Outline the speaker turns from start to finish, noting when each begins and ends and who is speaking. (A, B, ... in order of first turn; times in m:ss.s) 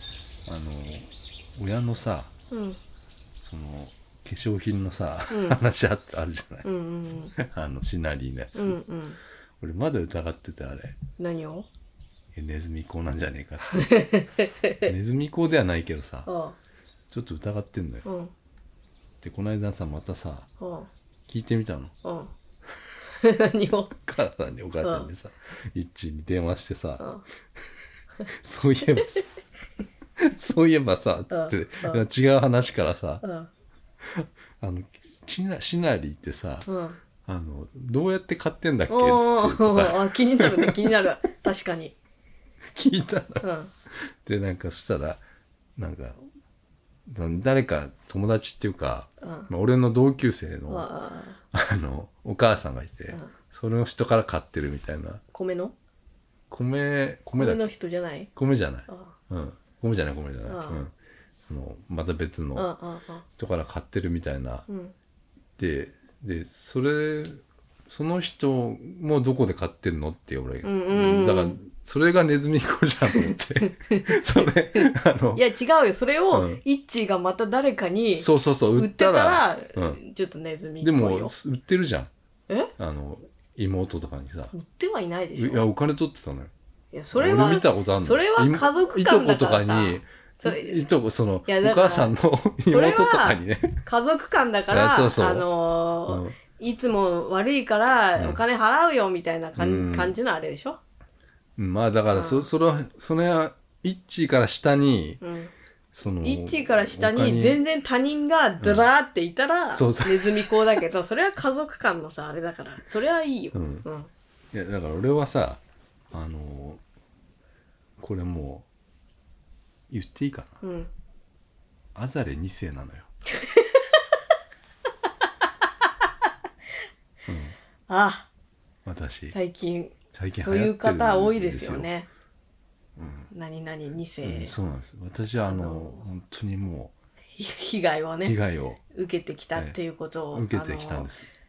0:00.4-0:02.3 A
0:02.5-0:02.8 B
0:03.4-0:06.6 A
0:05.3-0:05.6 B
0:06.6-0:07.4 B
0:07.4-0:08.8 A
0:08.5-0:09.2 B
0:09.6-0:11.0 A
0:11.2-0:11.7 B
0:12.3-0:14.1 A
0:13.7-0:14.9 B
0:14.8-0:16.3 A
0:16.2-0:16.6 B
0:17.1-0:18.0 A
0:18.0-0:18.3 B
0:19.2-0:20.5 A
0:20.6-0:20.9 B
0:21.3-0:21.9 A
0:22.0-0:22.3 B
0:23.2-0:23.9 B
0:23.9-0:27.0 A
0:24.8-0:25.1 B
0:27.0-0:27.2 B
0:28.3-0:29.2 A
0:30.2-0:33.2 A
0:31.3-0:32.0 B
0:33.2-0:33.5 B
0:34.0-0:36.7 A
0:36.6-0:37.0 B
0:37.2-0:41.0 A
0:38.9-0:41.9 B
0:42.7-0:43.4 A
0:43.4-0:43.7 B
0:44.2-0:45.2 A
0:45.8-0:46.2 A
0:47.1-0:50.9 A
0:49.2-0:49.5 B
0:50.7-0:51.4 B
0:51.5-0:55.2 A
0:53.1-0:53.3 B
0:55.3-0:55.7 B
0:56.5-0:57.6 A
0:57.3-0:58.3 B
0:58.4-1:00.9 A
0:58.9-0:59.1 B
1:00.5-1:00.8 B
1:01.5-1:02.7 A
1:02.6-1:03.2 B
1:03.4-1:04.6 A
1:04.7-1:04.9 B
1:05.6-1:15.4 A
1:10.6-1:11.6 B
1:13.1-1:21.3 B
1:16.3-1:16.6 A
1:18.2-1:20.0 A
1:20.8-1:22.1 A
1:22.8-1:24.5 A
1:24.5-1:25.7 B
1:25.4-1:26.5 A
1:26.9-1:30.8 B
1:27.1-1:33.8 A
1:31.4-1:32.1 B
1:32.7-1:40.8 B
1:34.7-1:35.5 A
1:36.0-1:36.4 A
1:38.2-1:38.4 A
1:39.6-1:40.2 A
1:41.6-1:45.2 A
1:42.1-1:42.5 B
1:45.2-1:45.5 B
1:45.9-1:47.6 A
1:46.2-1:54.1 B
1:49.7-1:50.8 A
1:53.5-1:53.8 A
1:54.5-1:55.6 A
1:56.1-1:56.8 A
1:58.0-1:58.6 A
1:59.9-2:00.6 A
2:00.6-2:00.9 B
2:01.9-2:03.1 A
2:03.4-2:04.0 B
2:07.3-2:07.5 A
2:07.9-2:08.3 B
2:08.8-2:09.3 A
2:09.3-2:12.1 B
2:10.1-2:11.9 A
2:13.0-2:13.3 A
2:13.3-2:14.5 B
2:14.2-2:16.9 A
2:15.4-2:16.0 B
2:17.4-2:18.4 B
2:18.2-2:18.8 A
2:18.9-2:21.1 B
2:20.3-2:21.3 A